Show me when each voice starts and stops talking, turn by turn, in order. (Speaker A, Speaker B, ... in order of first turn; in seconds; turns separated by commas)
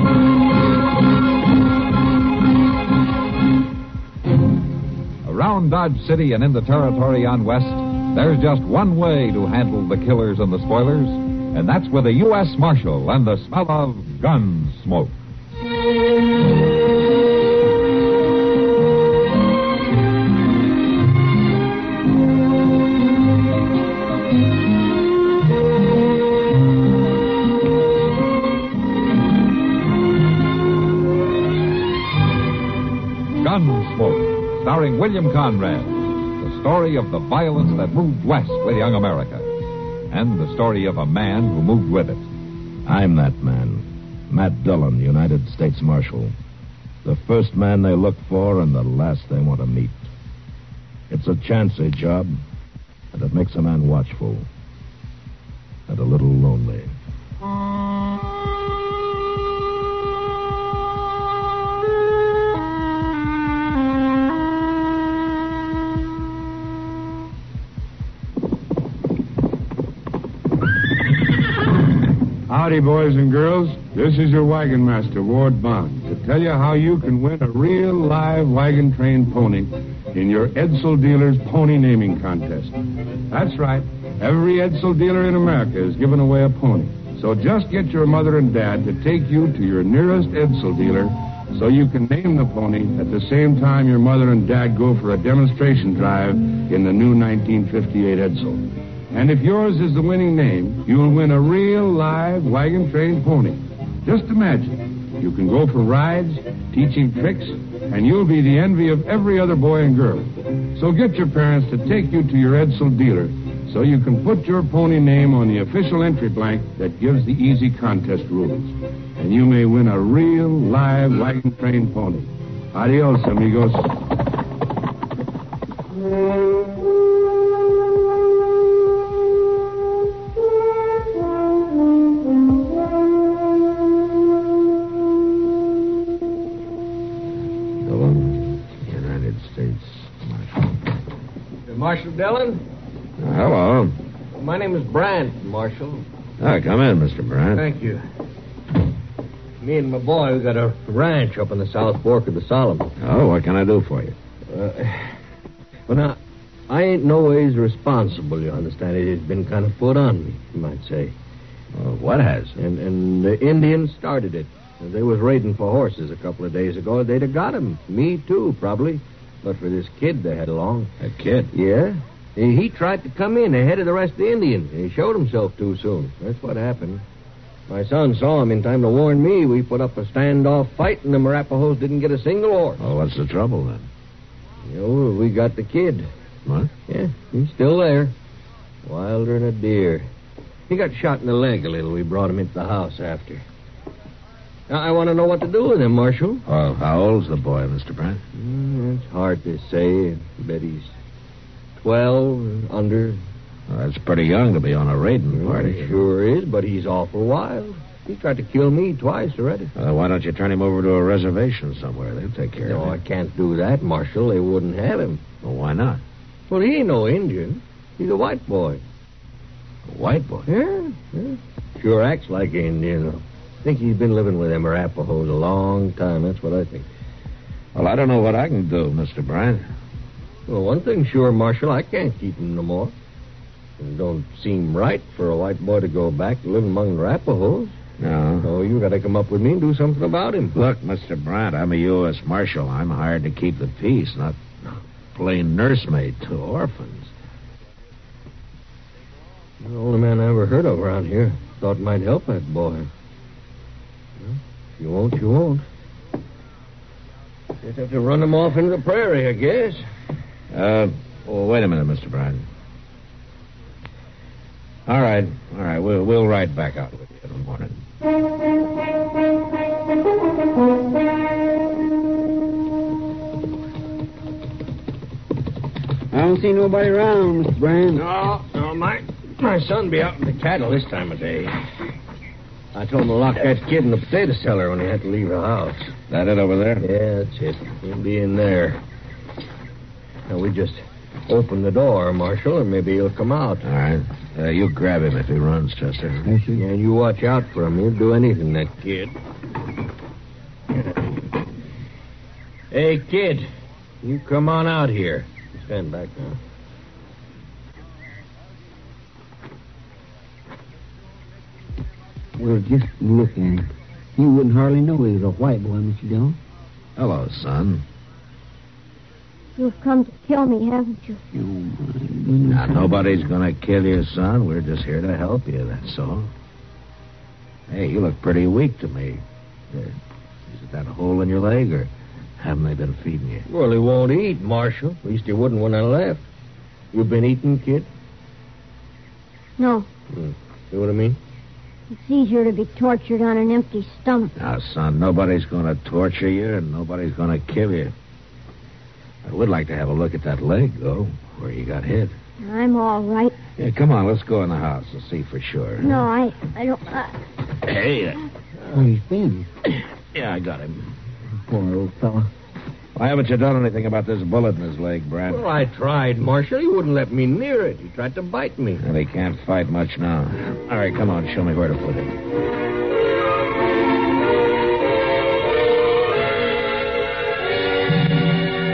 Speaker A: 5.2-15.1, Speaker A: 33.4-39.5, Speaker A: 40.1-42.2, Speaker B: 42.9-46.3, Speaker B: 47.0-50.1, Speaker B: 51.1-52.3, Speaker B: 53.1-54.5, Speaker B: 55.9-56.9, Speaker C: 72.5-82.8, Speaker C: 83.3-123.9, Speaker B: 137.8-140.7, Speaker D: 141.7-142.6, Speaker B: 143.2-143.9, Speaker D: 144.3-146.0, Speaker B: 146.4-147.7, Speaker D: 147.5-148.0, Speaker D: 149.6-152.9, Speaker B: 153.0-154.1, Speaker D: 154.5-155.2, Speaker D: 155.9-156.2, Speaker D: 156.7-161.1, Speaker B: 161.7-162.6, Speaker D: 162.6-170.9, Speaker B: 171.0-171.5, Speaker D: 171.5-177.0, Speaker D: 177.7-182.8, Speaker B: 182.8-183.9, Speaker D: 184.7-186.1, Speaker B: 186.4-186.7, Speaker D: 186.9-188.1, Speaker D: 188.8-190.1, Speaker D: 190.7-193.4, Speaker D: 194.7-196.4, Speaker B: 196.4-198.2, Speaker D: 198.3-200.9, Speaker D: 201.8-203.2, Speaker B: 203.7-206.0, Speaker D: 205.3-209.7, Speaker B: 209.7-213.0, Speaker D: 212.7-215.2, Speaker B: 215.4-216.0, Speaker D: 216.5-218.8, Speaker B: 219.8-220.5, Speaker D: 220.5-226.9, Speaker B: 227.7-229.7, Speaker D: 230.5-232.9, Speaker D: 233.8-237.7, Speaker B: 238.0-238.5, Speaker D: 238.4-240.6, Speaker B: 240.5-244.4, Speaker B: 245.1-247.1, Speaker D: 249.6-252.9, Speaker D: 254.2-255.6, Speaker D: 257.6-259.8, Speaker B: 260.5-262.4, Speaker B: 264.9-267.7, Speaker E: 276.2-278.0, Speaker D: 277.9-281.5, Speaker D: 282.7-285.9, Speaker B: 286.1-286.9, Speaker D: 286.8-288.8, Speaker D: 290.3-293.6, Speaker B: 293.6-296.3, Speaker E: 296.2-296.6, Speaker D: 296.5-299.1, Speaker D: 302.7-303.4, Speaker D: 304.0-306.4, Speaker E: 312.4-316.4, Speaker B: 316.9-317.8, Speaker F: 319.6-321.2, Speaker E: 321.3-323.3, Speaker B: 322.4-326.3, Speaker B: 327.7-329.9, Speaker B: 330.5-331.9, Speaker B: 332.4-333.4, Speaker D: 333.5-336.2, Speaker D: 336.9-337.9, Speaker F: 339.6-339.9, Speaker D: 340.1-341.2, Speaker F: 341.9-344.3, Speaker B: 344.4-347.9, Speaker B: 349.2-352.1, Speaker F: 352.4-353.3, Speaker B: 353.6-356.1, Speaker F: 355.8-357.2, Speaker B: 357.6-358.3, Speaker E: 358.7-359.5, Speaker B: 359.7-360.9, Speaker E: 361.5-362.3, Speaker B: 362.9-365.5, Speaker D: 365.3-368.8, Speaker B: 368.8-372.1